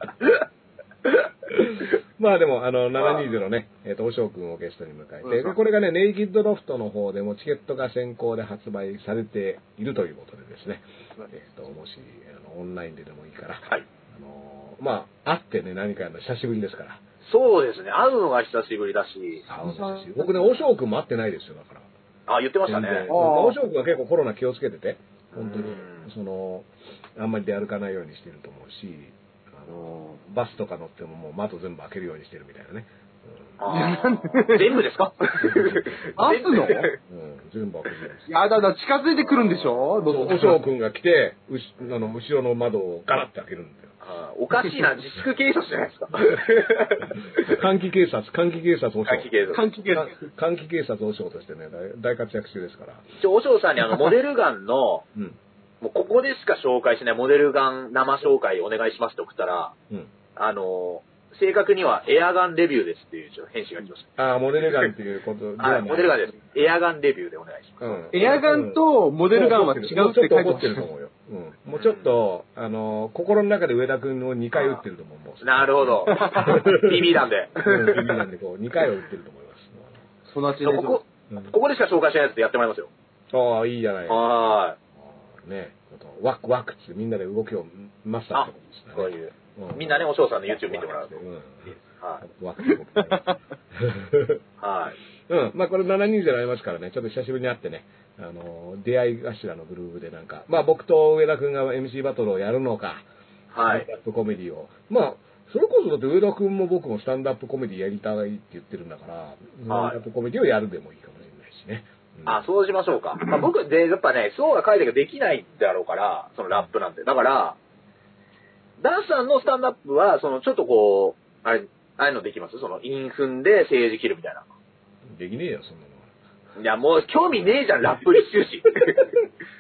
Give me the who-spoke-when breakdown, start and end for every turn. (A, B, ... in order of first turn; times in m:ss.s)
0:01.5-0:17.0 A
0:03.0-0:03.3 B
0:05.2-0:05.6 C
0:17.2-0:19.4 B
0:19.5-0:21.9 A
0:19.5-0:20.5 C
0:22.3-0:23.2 B
0:22.6-0:33.5 A
0:23.1-0:23.6 C
0:25.3-0:26.1 B
0:29.7-0:30.2 C
0:33.6-0:37.0 B
0:33.7-0:34.9 C
0:35.5-0:35.8 A
0:36.2-0:36.9 C
0:37.1-0:38.3 A
0:38.3-0:40.6 C
0:40.0-0:43.9 A
0:44.0-0:47.6 B
0:47.4-0:49.4 A
0:49.1-0:49.6 B
0:49.5-0:50.2 C
0:49.9-0:53.1 A
0:53.2-0:55.0 B
0:55.8-0:59.7 B
1:00.4-1:04.9 B
1:04.2-1:06.6 A
1:05.6-1:08.1 B
1:07.8-1:20.0 A
1:08.1-1:10.8 C
1:11.8-1:12.1 B
1:14.5-1:14.8 B
1:15.4-1:18.2 B
1:16.1-1:16.6 C
1:20.3-1:21.0 C
1:20.6-1:22.9 B
1:23.3-1:24.4 A
1:24.1-1:24.8 B
1:25.0-1:34.4 A
1:28.3-1:31.1 B
1:32.7-1:33.3 C
1:34.6-1:35.0 B
1:35.3-1:43.0 A
1:43.5-1:43.9 B
1:43.6-1:52.4 A
1:49.7-1:50.0 B
1:52.3-1:57.6 B
1:58.8-2:04.4 B
2:05.1-2:06.0 A
2:06.6-2:09.1 B